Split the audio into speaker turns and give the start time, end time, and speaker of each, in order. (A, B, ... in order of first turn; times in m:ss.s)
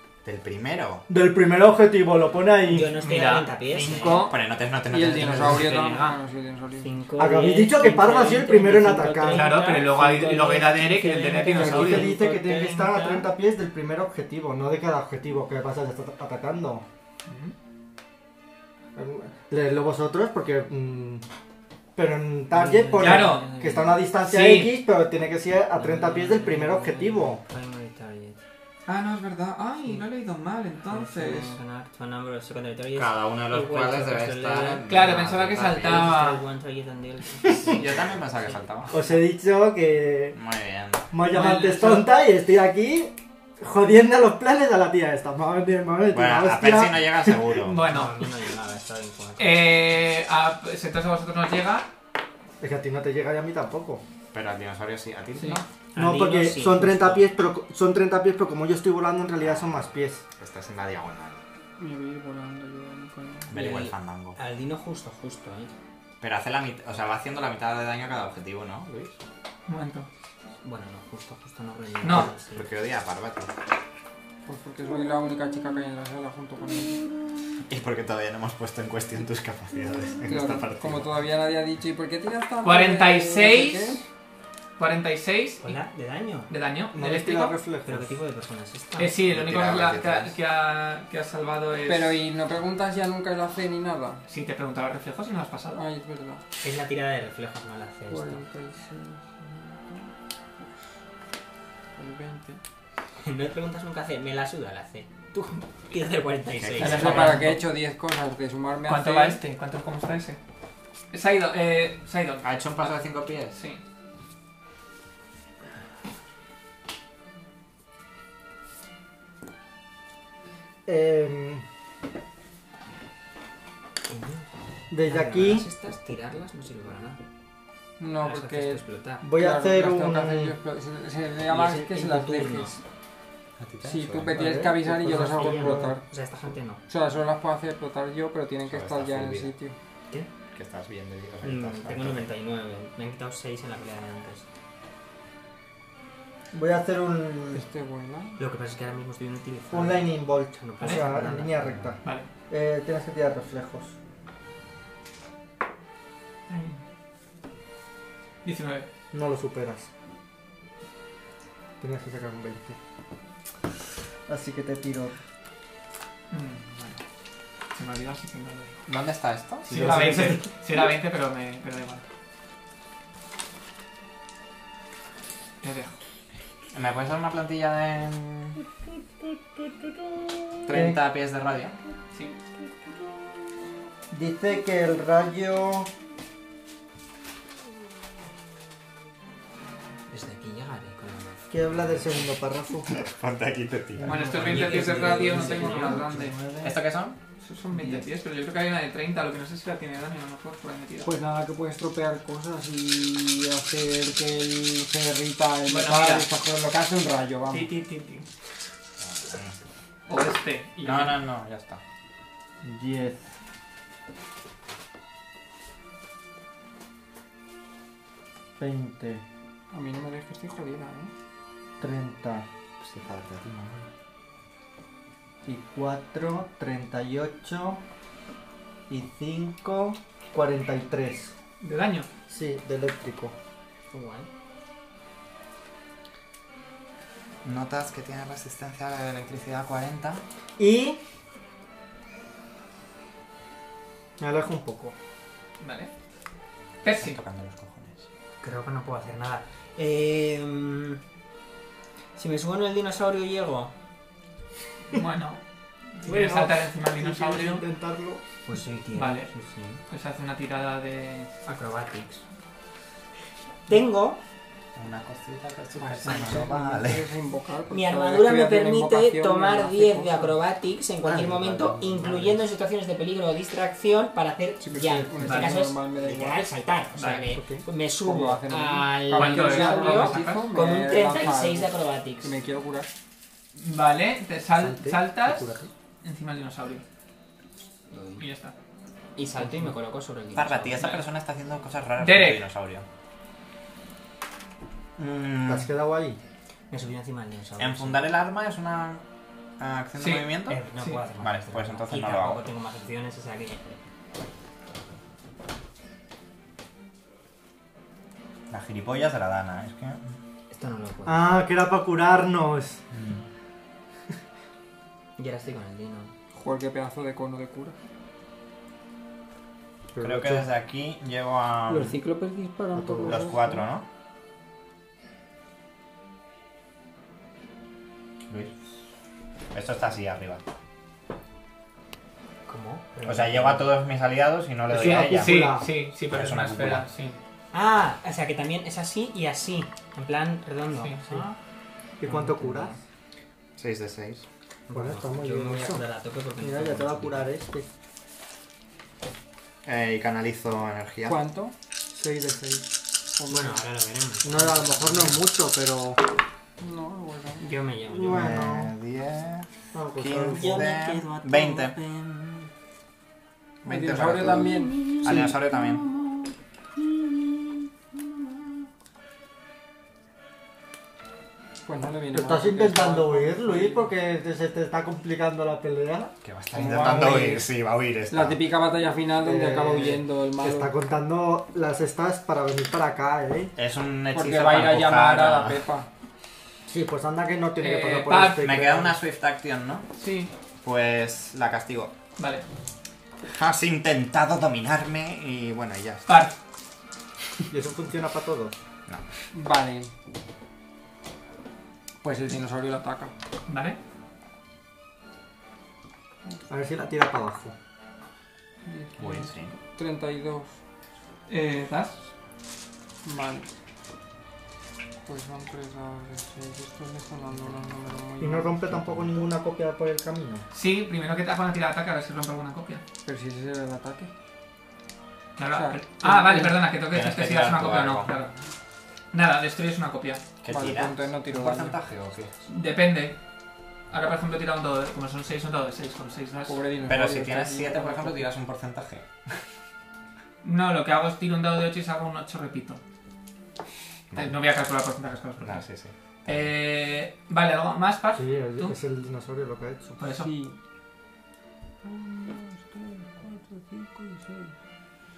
0:00.2-0:01.0 A
0:01.1-0:03.0 B
0:02.6-0:04.3 C
0:03.0-0:04.4 D
0:04.2-0:05.8 A
0:04.9-0:07.0 E
0:05.0-0:06.2 D
0:06.8-0:13.3 C
0:07.2-0:09.6 B
0:09.3-0:12.1 D
0:11.4-0:12.1 E
0:11.5-0:16.8 B
0:17.2-0:17.5 D
0:18.9-0:21.2 B
0:22.0-0:27.4 B
0:22.5-0:24.1 C
0:23.0-0:23.5 D
0:24.2-0:24.8 D
0:25.7-0:28.4 C
0:28.8-0:31.6 D
0:30.9-0:34.9 C
0:32.9-0:36.1 A
0:34.9-0:36.4 D
0:35.8-0:39.2 C
0:37.5-0:38.9 A
0:38.9-0:40.4 B
0:40.3-0:41.1 A
0:41.1-0:47.5 B
0:41.2-0:42.1 D
0:46.1-0:47.8 A
0:47.6-0:48.2 D
0:47.8-0:49.6 C
0:49.4-0:51.9 D
0:52.6-0:54.0 B
0:54.3-0:55.6 A
0:55.4-0:55.6 D
0:55.9-0:57.3 C
0:56.0-1:00.2 B
0:59.4-1:01.4 A
1:01.8-1:03.6 E
1:03.5-1:04.4 A
1:03.5-1:05.7 C
1:06.2-1:09.2 A
1:09.7-1:10.1 D
1:10.6-1:12.7 C
1:12.0-1:12.3 D
1:12.1-1:13.5 A
1:14.4-1:17.1 E
1:17.7-1:21.1 A
1:20.3-1:24.0 E
1:22.6-1:24.0 D
1:24.8-1:25.7 D
1:25.6-1:26.5 C
1:26.5-1:27.6 D
1:26.9-1:28.1 B
1:27.8-1:29.2 C
1:29.0-1:32.2 D
1:29.3-1:30.4 A
1:31.8-1:34.2 E
1:34.3-1:35.8 D
1:35.7-1:36.4 E
1:36.6-1:38.4 C
1:38.1-1:40.1 E
1:42.0-1:42.6 E
1:43.2-1:47.5 C
1:46.6-1:47.1 A
1:46.8-1:49.4 E
1:46.8-1:47.6 D
1:48.8-1:50.4 D
1:51.1-1:52.9 D
1:52.4-1:53.6 A
1:53.5-1:53.8 D
2:00.8-2:01.6 B
2:04.1-2:04.5 C
2:04.9-2:05.7 B
2:05.0-2:07.2 C
2:08.0-2:12.8 E
2:08.2-2:09.2 C
2:09.2-2:10.5 B
2:11.5-2:12.8 C
2:13.6-2:14.5 A
2:13.8-2:16.0 E
2:14.3-2:16.0 B
2:15.0-2:16.8 C
2:16.9-2:19.7 E
2:18.7-2:19.5 A
2:20.5-2:22.3 A
2:21.4-2:24.5 C
2:26.5-2:27.6 B
2:27.5-2:28.4 E
2:28.4-2:31.9 C
2:29.7-2:33.9 B
2:30.8-2:31.0 D
2:36.5-2:36.8 D
2:38.4-2:38.9 D
2:39.1-2:39.9 B
2:41.8-2:42.8 B
2:44.3-2:45.2 B
2:46.3-2:47.0 D
2:47.7-2:48.8 D
2:48.9-2:49.7 A
2:49.6-2:50.5 B
2:49.7-2:52.0 D
2:55.6-2:56.0 D
2:56.7-2:58.6 A
3:00.7-3:01.8 A
3:00.7-3:01.0 B
3:04.1-3:05.9 B
3:10.1-3:12.0 C
3:11.5-3:13.0 B
3:12.9-3:14.2 A
3:14.0-3:16.7 B
3:14.0-3:16.4 D
3:14.1-3:16.0 E
3:14.4-3:16.3 C
3:16.6-3:17.2 A
3:17.4-3:21.1 D
3:17.7-3:18.0 E
3:21.0-3:27.7 E
3:25.7-3:26.3 D
3:27.5-3:28.3 D
3:29.0-3:29.5 A
3:30.1-3:31.2 D
3:30.8-3:31.8 A
3:32.6-3:33.2 B
3:38.6-3:39.2 B
3:39.7-3:41.1 E
3:41.8-3:42.4 B
3:42.8-3:43.9 A
3:45.4-3:47.8 B
3:48.9-3:51.3 B
3:51.6-3:52.1 D
3:52.3-3:53.3 B
3:53.9-3:54.3 C
3:57.4-4:00.2 A
4:00.6-4:01.0 B
4:04.2-4:04.9 B
4:05.6-4:05.9 D
4:06.8-4:07.2 D
4:06.8-4:08.0 A
4:08.4-4:11.0 C
4:12.2-4:13.7 C
4:14.9-4:15.4 D
4:15.9-4:17.6 D
4:16.0-4:18.2 B
4:18.5-4:19.8 C
4:19.0-4:19.3 D
4:19.9-4:21.3 D
4:21.4-4:22.2 C
4:23.7-4:24.2 C
4:24.7-4:27.1 A
4:25.8-4:30.4 E
4:27.7-4:42.4 C
4:31.0-4:32.4 B
4:34.6-4:36.4 E
4:35.2-4:35.6 D
4:37.0-4:37.2 D
4:37.3-4:37.6 B
4:38.0-4:41.7 E
4:39.1-4:40.5 D
4:42.2-4:42.9 E
4:43.5-4:46.8 D
4:44.5-4:45.7 B
4:47.9-4:48.2 C
4:48.2-4:48.5 D
4:49.2-4:50.8 C
4:50.3-4:52.8 A
4:50.8-4:51.0 D
4:52.0-4:52.4 D
4:55.0-4:55.7 A
4:55.0-4:56.2 B
4:56.7-4:58.0 C
4:57.6-4:59.0 A
4:59.6-5:00.6 A
5:00.0-5:01.0 D
5:00.5-5:03.8 C
5:01.2-5:02.4 A
5:08.5-5:10.0 A
5:10.5-5:11.2 C
5:11.0-5:12.8 B
5:12.9-5:13.2 A
5:15.2-5:16.1 C
5:16.3-5:17.8 E
5:19.9-5:20.5 B
5:20.0-5:22.0 A
5:21.7-5:23.6 E
5:22.7-5:23.4 B
5:23.1-5:23.8 A
5:29.5-5:30.4 A
5:32.5-5:33.7 C
5:33.0-5:35.6 A
5:34.7-5:35.6 B
5:34.7-5:37.2 D
5:36.1-5:36.8 A
5:37.5-5:41.4 C
5:40.8-5:41.3 D
5:42.0-5:42.8 B
5:42.0-5:42.8 C
5:43.6-5:44.2 A
5:44.7-5:47.3 C
5:44.7-5:45.8 B
5:46.4-5:47.7 B
5:49.6-5:51.2 A
5:51.0-5:51.5 E
5:51.9-5:52.7 B
5:53.2-5:53.6 E
5:53.2-5:55.2 C
5:54.2-5:56.0 B
5:56.6-5:57.5 E
5:57.4-5:58.3 C
5:57.9-5:58.7 B
5:58.1-6:02.4 A
5:59.7-6:00.8 B
6:00.3-6:02.1 C
6:03.6-6:05.8 A
6:03.6-6:05.0 E
6:04.4-6:05.7 C
6:11.6-6:13.9 E
6:12.1-6:16.1 B
6:16.2-6:18.4 A
6:16.5-6:17.5 E
6:16.8-6:17.3 B
6:18.1-6:20.7 E
6:19.2-6:23.5 B
6:23.6-6:25.6 A
6:24.1-6:25.9 E
6:26.7-6:28.9 B
6:27.6-6:28.5 D
6:28.4-6:29.9 A
6:30.0-6:30.3 D
6:30.6-6:31.9 A
6:32.2-6:32.4 D
6:33.2-6:36.0 A
6:36.1-6:36.3 D
6:37.5-6:38.6 B
6:39.3-6:39.9 E
6:42.0-6:43.1 E
6:43.5-6:43.8 D
6:46.5-6:47.5 B
6:48.6-6:50.6 E
6:49.0-6:49.5 A
6:51.3-6:52.1 D
6:53.0-6:53.5 E
6:55.0-6:58.8 E
6:58.2-7:00.4 B
6:58.7-6:59.2 A
7:00.5-7:02.8 D
7:03.0-7:04.1 E
7:05.4-7:08.3 D
7:05.5-7:06.6 E
7:06.9-7:08.1 A
7:09.1-7:10.2 D
7:10.4-7:12.3 A
7:10.5-7:11.8 E
7:12.4-7:13.2 D
7:13.9-7:16.6 D
7:16.4-7:18.3 E
7:16.8-7:19.1 A
7:20.4-7:22.8 D
7:24.1-7:25.6 D
7:25.4-7:26.5 A
7:26.2-7:28.8 D
7:28.2-7:30.0 B
7:30.0-7:30.3 D
7:30.2-7:30.6 E
7:31.8-7:34.5 E